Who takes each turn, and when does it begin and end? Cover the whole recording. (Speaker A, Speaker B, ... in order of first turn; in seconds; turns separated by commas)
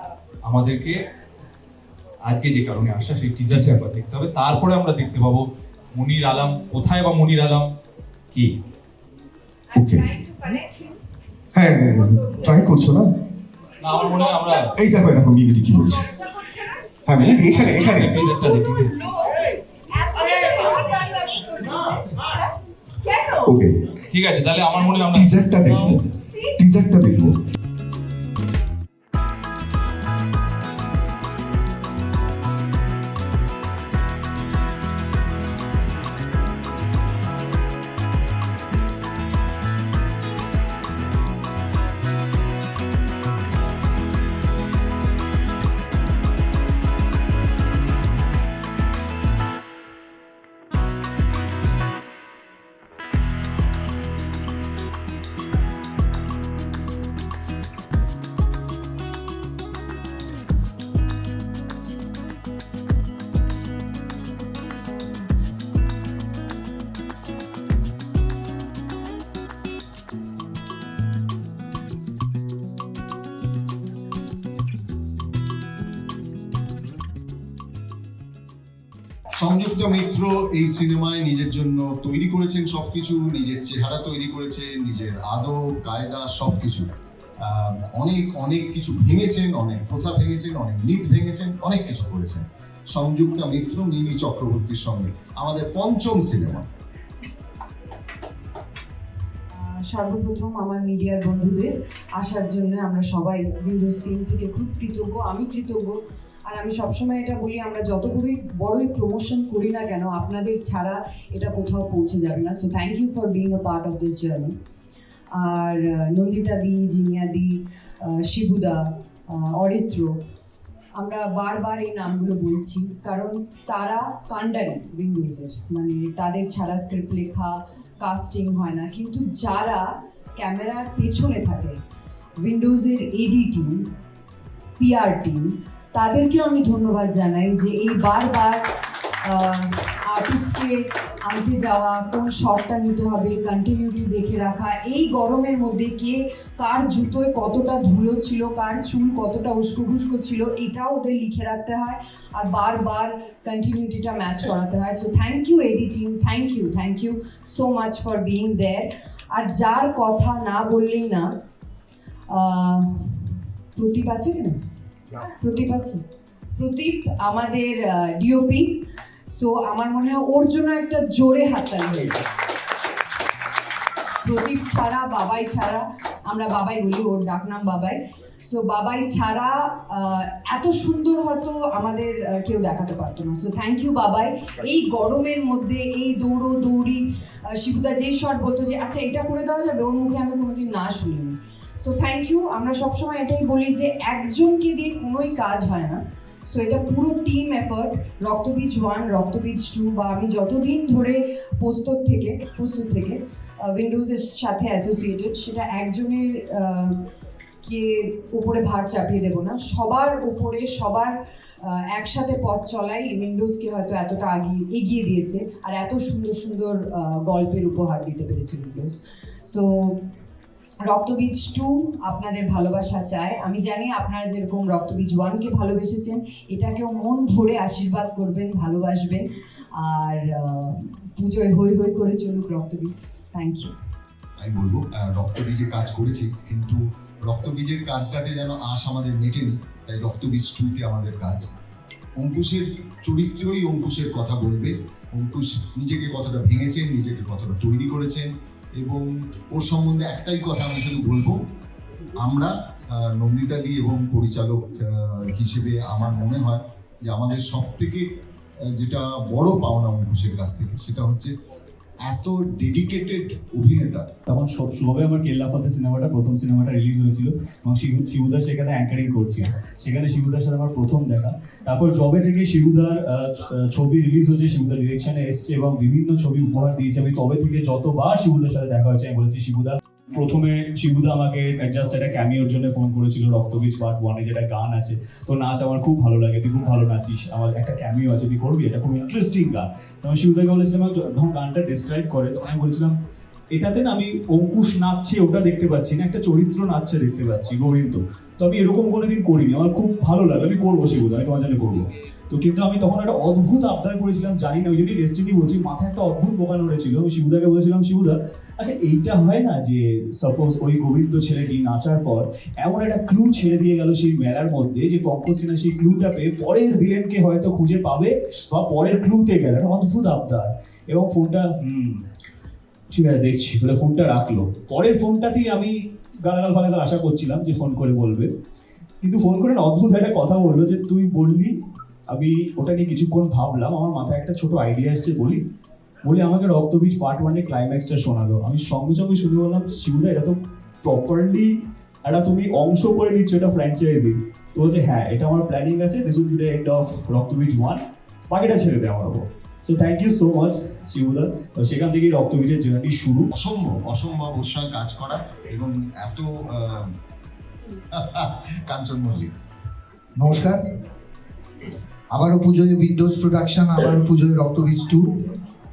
Speaker A: 0.4-1.0, Speaker A: 2.3-5.4, Speaker A: 5.9-7.7, Speaker B: 9.8-10.6, Speaker B: 11.5-13.1, Speaker A: 13.8-14.7, Speaker B: 14.8-16.0, Speaker B: 17.4-18.0, Speaker A: 17.4-19.1, Speaker A: 24.1-26.0, Speaker B: 25.1-26.0, Speaker C: 26.6-27.2, Speaker B: 26.7-27.3, Speaker C: 79.4-86.9, Speaker C: 87.4-96.7, Speaker D: 99.5-114.5, Speaker D: 115.3-120.2, Speaker D: 121.0-131.8, Speaker D: 132.4-133.9, Speaker D: 134.8-138.7, Speaker D: 139.2-161.3, Speaker D: 162.3-164.6, Speaker D: 165.4-166.0, Speaker D: 166.6-172.2, Speaker D: 174.2-207.0, Speaker D: 207.6-220.1, Speaker D: 220.8-233.7, Speaker C: 234.4-241.5, Speaker C: 242.2-251.3, Speaker C: 252.2-258.1, Speaker C: 258.7-261.3, Speaker C: 262.0-264.1, Speaker E: 264.3-292.9, Speaker E: 293.5-322.0, Speaker E: 322.9-328.3, Speaker E: 329.0-331.6, Speaker E: 332.1-335.4, Speaker E: 336.0-353.3, Speaker C: 353.3-356.9, Speaker C: 357.9-359.3, Speaker F: 360.1-360.6, Speaker F: 362.1-365.3